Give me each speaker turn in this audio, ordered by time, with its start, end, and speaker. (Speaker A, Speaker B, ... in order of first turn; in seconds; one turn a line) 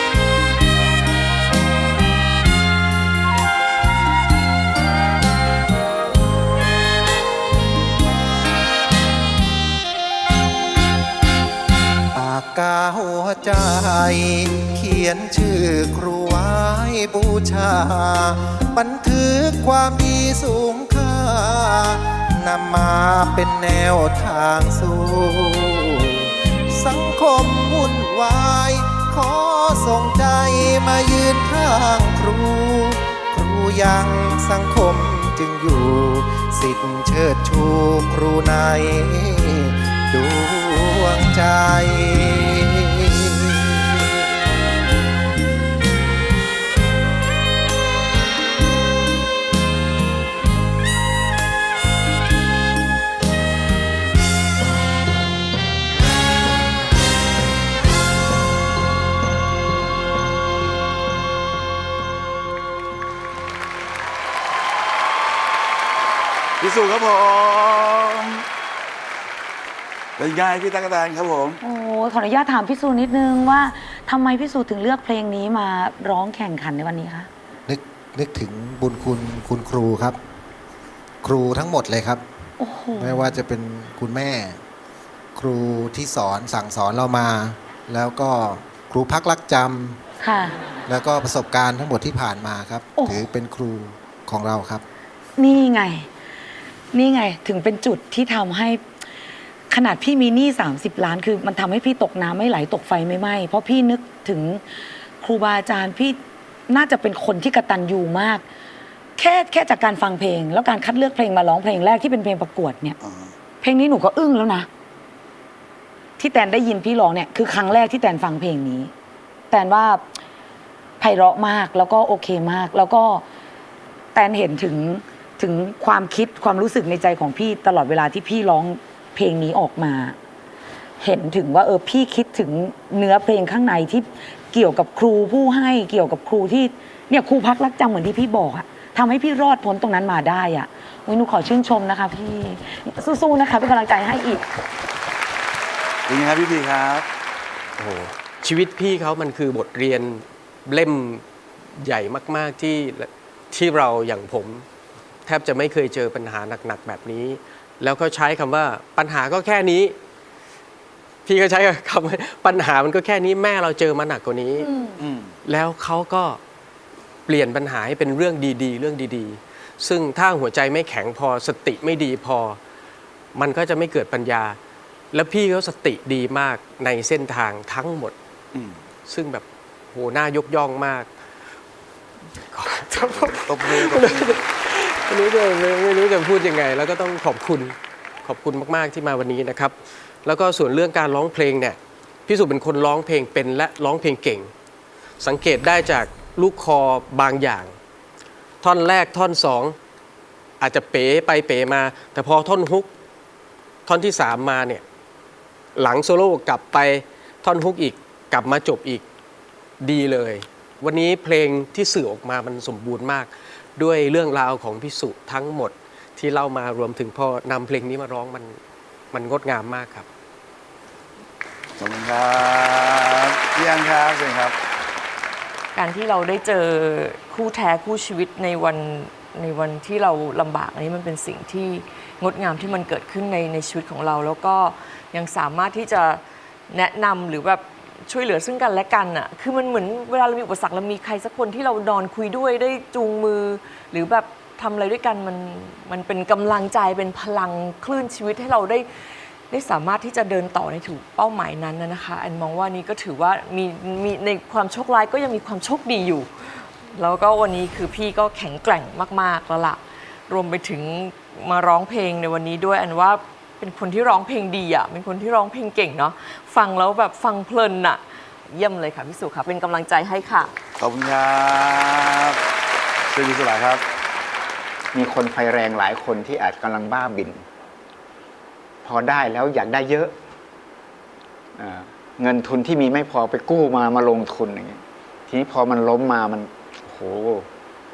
Speaker A: 12.1-44.1
Speaker B: 66.6-68.4
Speaker B: 70.2-71.6
Speaker C: 71.6-77.3
Speaker A: 77.7-80.2
Speaker A: 81.2-82.2
Speaker C: 82.6-83.4
Speaker A: 83.0-84.6
Speaker A: 85.3-90.0
Speaker C: 90.2-90.6
Speaker A: 90.9-94.8
Speaker C: 93.0-93.2
Speaker C: 95.4-96.1
Speaker C: 96.9-98.8
Speaker C: 99.7-104.6
Speaker C: 105.2-108.4
Speaker C: 109.2-113.0
Speaker B: 113.0-113.3
Speaker C: 113.6-114.7
Speaker C: 116.2-118.9
Speaker C: 119.5-120.0
Speaker C: 121.0-123.2
Speaker C: 124.1-130.2
Speaker C: 131.0-144.4
Speaker B: 146.1-147.0
Speaker D: 147.8-151.2
Speaker D: 151.8-154.7
Speaker D: 155.2-159.9
Speaker D: 161.2-164.7
Speaker C: 164.6-165.0
Speaker B: 165.0-165.3
Speaker D: 165.4-166.4
Speaker D: 167.3-172.6
Speaker D: 173.3-174.6
Speaker D: 175.1-178.1
Speaker D: 179.1-181.1
Speaker D: 182.5-194.5
Speaker B: 183.1-184.4
Speaker D: 195.2-197.8
Speaker D: 198.6-199.8
Speaker D: 200.6-202.9
Speaker D: 203.8-204.8
Speaker D: 205.8-209.0
Speaker D: 209.8-218.6
Speaker D: 219.1-220.1
Speaker B: 221.8-224.5
Speaker E: 225.7-248.9
Speaker E: 249.5-270.5
Speaker B: 270.8-272.4
Speaker B: 273.1-273.8
Speaker F: 274.9-277.4
Speaker F: 278.8-280.1
Speaker F: 281.6-287.5